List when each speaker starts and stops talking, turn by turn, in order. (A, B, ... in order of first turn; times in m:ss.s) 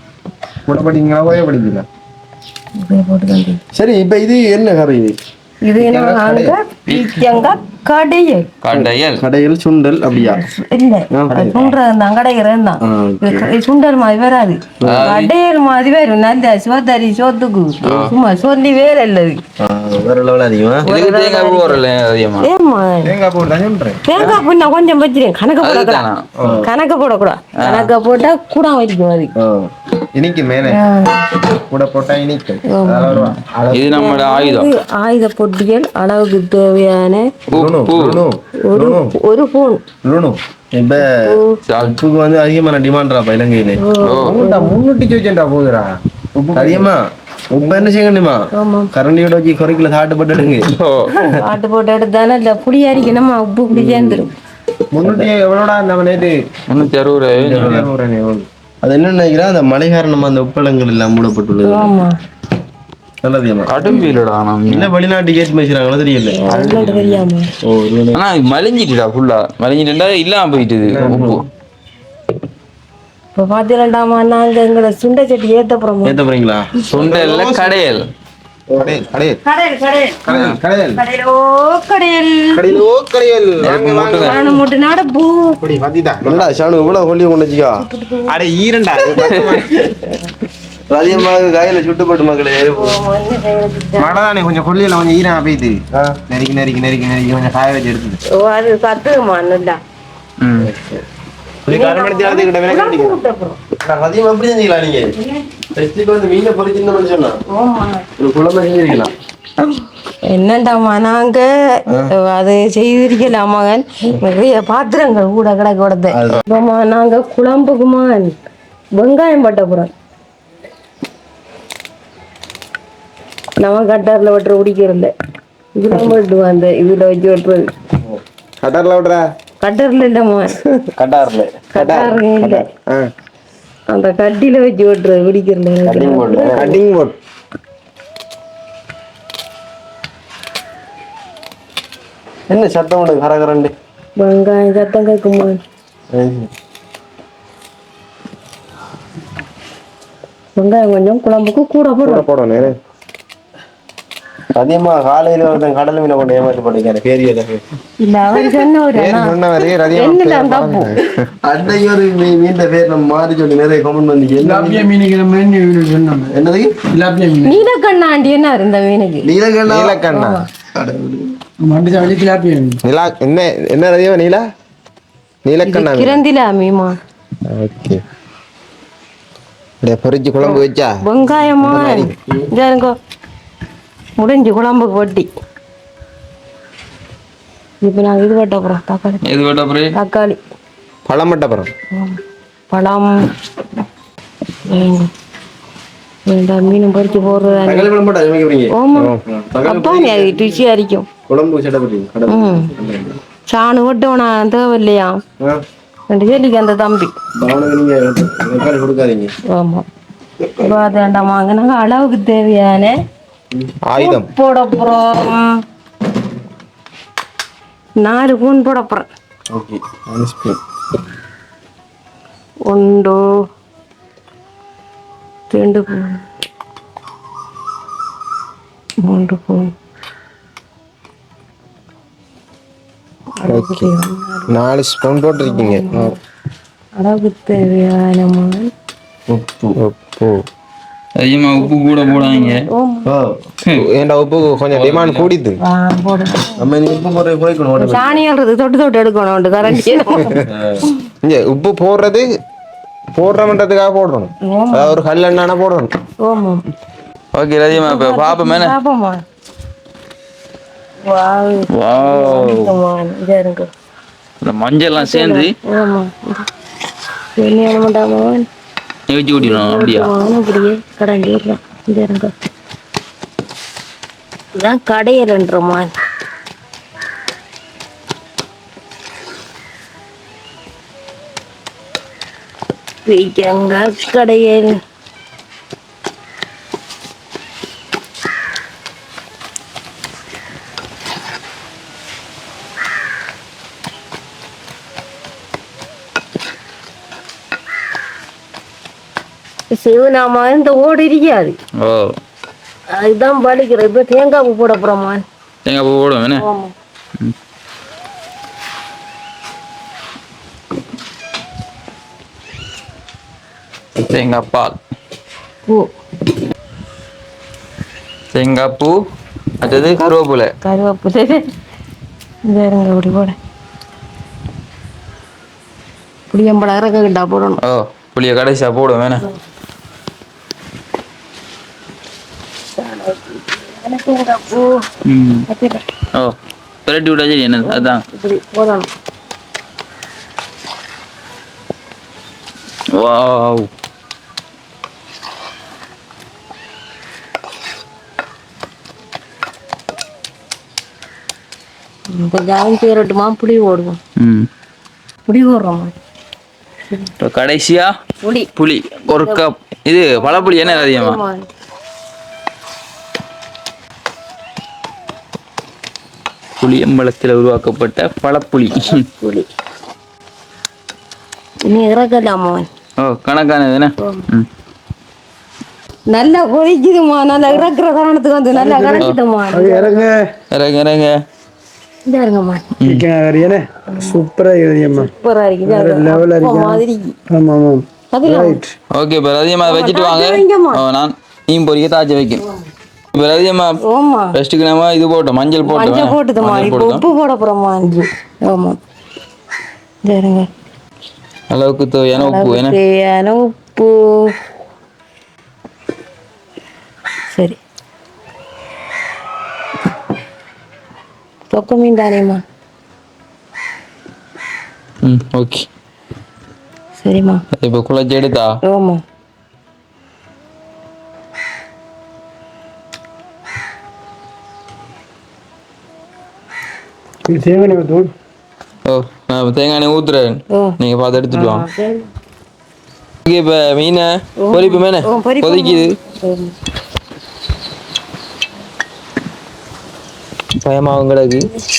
0:00.6-0:01.8 A
0:02.8-0:03.6 B
0:03.7-0:05.2 C
0:05.6-0:08.5 B
0:05.8-0:06.6 A
0:08.6-0:09.2 D
0:08.7-0:10.4 C
0:10.2-0:19.4 B
0:11.1-0:11.7 C
0:12.8-0:13.5 C
0:14.8-0:15.1 C
0:14.8-0:15.3 D
0:17.8-0:18.1 D
0:19.6-0:20.8 C
0:20.8-0:21.8 B
0:20.8-0:22.5 D
0:22.4-0:23.1 B
0:23.0-0:24.0 A
0:24.0-0:26.1 B
0:25.6-0:26.2 D
0:26.4-0:26.7 C
0:26.6-0:29.3 B
0:27.6-0:27.9 D
0:29.4-0:29.7 C
0:30.1-0:30.8 A
0:30.7-0:31.3 B
0:31.5-0:33.9 A
0:32.7-0:33.2 B
0:33.1-0:34.7 D
0:33.8-0:37.3 B
0:37.5-0:38.2 D
0:37.5-0:39.1 C
0:38.6-0:39.8 B
0:40.1-0:40.4 A
0:40.7-0:43.8 C
0:41.0-0:41.6 B
0:41.7-0:42.0 D
0:43.8-0:44.8 B
0:44.0-0:44.4 D
0:44.1-0:45.9 A
0:46.3-0:50.7 C
0:46.5-0:46.9 A
0:48.5-0:48.9 B
0:50.6-0:51.1 D
0:51.1-0:54.3 B
0:53.7-0:54.2 C
0:54.9-0:56.4 A
0:55.0-0:55.3 C
0:56.7-0:57.8 D
0:57.4-0:57.9 C
0:57.5-0:58.5 A
0:58.8-1:02.0 C
1:01.6-1:02.1 B
1:03.2-1:04.2 C
1:03.7-1:04.9 D
1:04.7-1:06.5 C
1:06.3-1:07.5 B
1:06.5-1:07.2 D
1:07.6-1:08.2 C
1:08.1-1:11.4 D
1:10.9-1:11.2 A
1:11.0-1:11.4 C
1:13.4-1:16.2 B
1:16.0-1:16.7 C
1:16.9-1:18.0 D
1:16.9-1:17.8 A
1:18.7-1:19.0 C
1:18.8-1:19.4 A
1:19.4-1:20.3 B
1:20.2-1:21.0 A
1:20.3-1:20.6 D
1:21.0-1:22.8 B
1:22.5-1:24.4 A
1:23.6-1:24.4 D
1:24.2-1:25.6 B
1:25.6-1:26.5 A
1:26.2-1:27.8 C
1:27.8-1:28.4 B
1:28.3-1:29.8 A
1:29.2-1:29.6 D
1:30.9-1:33.0 C
1:32.8-1:34.2 B
1:34.0-1:38.2 A
1:35.9-1:36.2 C
1:38.3-1:39.8 B
1:40.4-1:40.7 D
1:40.6-1:41.0 C
1:41.7-1:43.2 A
1:41.7-1:43.6 B
1:43.8-1:45.1 C
1:45.1-1:45.4 B
1:45.8-1:47.4 C
1:47.5-1:48.0 B
1:48.2-1:49.1 C
1:50.2-1:58.3 B
1:51.9-1:52.1 C
1:56.1-1:56.4 C
1:59.0-1:59.9 B
2:03.6-2:05.1 B
2:05.8-2:07.7 B
2:08.6-2:09.2 A
2:09.6-2:10.6 B
2:11.0-2:11.6 C
2:11.7-2:12.6 B
2:11.7-2:13.1 A
2:13.9-2:16.6 B
2:15.8-2:16.8 C
2:16.5-2:17.2 A
2:22.5-2:23.7 C
2:24.2-2:25.6 B
2:26.1-2:26.5 C
2:30.6-2:32.2 B
2:32.0-2:32.8 A
2:34.5-2:37.6 C
2:38.0-2:40.9 B
2:38.9-2:41.3 A
2:41.4-2:44.9 C
2:44.4-2:47.6 E
2:46.3-2:46.8 C
2:47.4-2:49.3 B
2:49.2-2:50.0 C
2:49.6-2:50.4 A
2:50.1-2:50.4 B
2:50.7-2:51.3 C
2:51.6-2:52.8 E
2:52.8-2:54.4 A
2:55.4-2:56.2 A
2:55.6-2:57.0 B
2:57.5-2:58.0 A
2:59.8-3:01.0 A
3:00.5-3:02.9 B
3:01.6-3:02.1 A
3:04.2-3:05.3 B
3:07.8-3:09.2 B
3:09.2-3:09.9 D
3:09.9-3:10.4 B
3:11.0-3:11.7 A
3:11.9-3:12.2 B
3:12.7-3:13.2 B
3:14.6-3:15.1 B
3:16.2-3:17.9 B
3:17.6-3:18.7 C
3:18.7-3:21.1 B
3:18.9-3:19.2 A
3:19.2-3:20.4 C
3:21.3-3:23.2 C
3:22.3-3:22.7 B
3:23.5-3:25.2 B
3:26.1-3:27.1 B
3:27.4-3:29.3 C
3:29.5-3:29.8 B
3:30.6-3:33.0 B
3:33.8-3:34.3 A
3:34.0-3:35.6 B
3:38.0-3:39.1 B
3:39.5-3:40.6 C
3:42.7-3:43.2 B
3:45.5-3:46.2 B
3:49.0-3:49.7 B
3:53.4-3:54.5 B
3:53.4-3:53.9 A
3:54.5-3:56.2 A
3:55.4-3:56.2 B
3:57.0-3:58.7 B
3:59.3-3:59.8 C
3:59.8-4:00.2 D
4:01.2-4:02.7 D
4:01.6-4:03.1 B
4:03.0-4:03.3 C
4:03.7-4:05.6 A
4:04.7-4:05.3 D
4:05.6-4:06.7 B
4:06.6-4:08.2 C
4:07.8-4:10.9 B
4:10.2-4:10.4 A
4:10.4-4:10.8 C
4:11.2-4:12.3 A
4:13.2-4:15.9 A
4:14.4-4:15.0 B
4:16.2-4:16.6 B
4:17.3-4:18.7 D
4:17.7-4:19.2 B
4:21.0-4:23.7 B
4:21.7-4:22.8 D
4:24.4-4:25.5 D
4:25.0-4:26.5 B
4:27.4-4:28.5 B
4:29.1-4:30.1 D
4:29.4-4:32.3 B
4:34.6-4:35.9 B
4:43.0-4:44.8 B
4:59.7-5:01.6 B
5:01.8-5:02.1 D
5:02.9-5:05.2 B
5:05.6-5:06.4 D
5:06.4-5:06.7 B
5:14.1-5:14.8 D
5:18.3-5:19.0 D
5:19.6-5:20.5 D
5:20.6-5:21.4 B
5:22.5-5:23.4 B
5:26.3-5:27.6 B
5:27.6-5:29.2 D
5:32.7-5:34.8 B
5:35.0-5:35.4 D
5:35.5-5:35.8 B
5:36.8-5:38.0 D
5:37.6-5:38.9 B
5:42.9-5:43.7 D
5:52.1-5:54.0 B
5:54.2-5:54.5 D
5:55.3-5:55.9 B
5:57.2-5:57.9 D
5:58.2-5:58.5 B
5:58.6-6:01.2 D
5:59.1-5:59.4 B
6:00.1-6:01.5 B
6:06.6-6:08.9 D
6:08.7-6:09.5 B
6:11.7-6:12.6 B
6:13.0-6:14.5 D
6:14.0-6:14.2 B
6:16.1-6:20.0 B
6:18.5-6:20.1 E
6:20.5-6:21.2 D
6:22.0-6:22.7 B
6:22.8-6:23.0 D
6:22.8-6:25.1 E
6:23.9-6:24.2 B
6:25.0-6:27.2 B
6:25.6-6:28.7 E
6:28.1-6:28.6 B
6:28.9-6:32.4 D
6:29.6-6:30.8 B
6:33.1-6:33.8 D
6:33.8-6:34.3 B
6:34.3-6:37.0 D
6:35.6-6:38.8 B
6:40.0-6:40.5 B
6:41.5-6:42.8 D
6:42.2-6:44.3 B
6:47.3-6:47.6 B
6:51.5-6:52.4 B
6:55.0-6:55.6 D
6:57.0-6:57.4 B
6:57.6-6:58.6 D
6:58.6-6:59.0 B
7:07.3-7:08.1 E
7:08.9-7:11.7 D
7:10.5-7:10.8 B
7:11.3-7:12.1 B
7:13.2-7:15.9 D
7:14.4-7:16.5 B
7:20.6-7:21.4 D